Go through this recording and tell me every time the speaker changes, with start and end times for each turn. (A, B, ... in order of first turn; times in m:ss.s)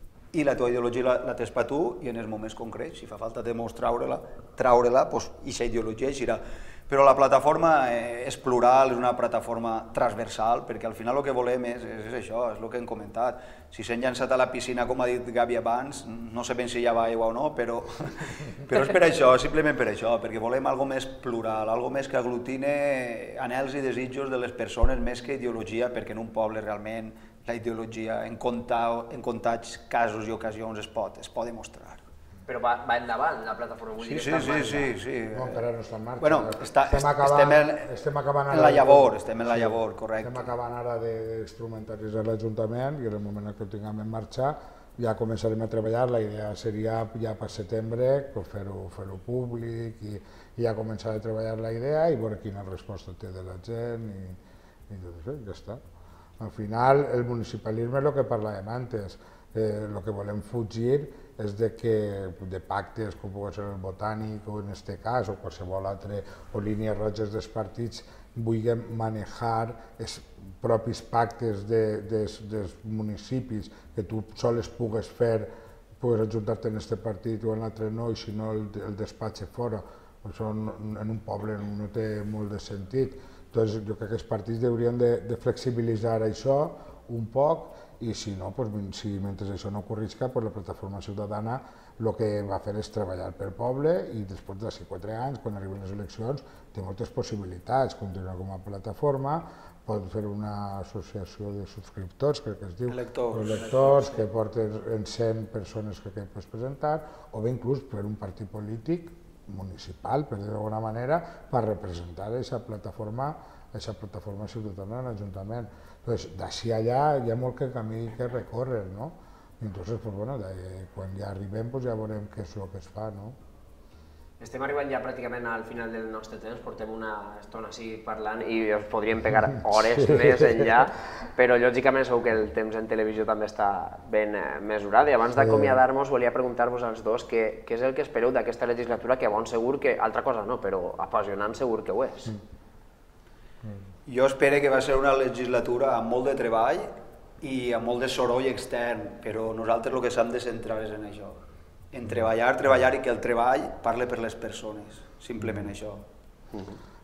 0:00.3-0:32.0 A
0:32.5-0:34.9 B
0:34.0-0:35.6 A
0:35.3-0:55.8 C
0:36.2-0:37.9 A
0:38.5-0:40.5 A
0:56.4-1:15.5 C
1:16.0-2:03.4 C
1:42.9-1:44.0 A
2:04.4-2:22.4 B
2:09.7-2:10.7 C
2:15.4-2:15.8 C
2:24.1-2:31.4 A
2:31.9-2:36.0 A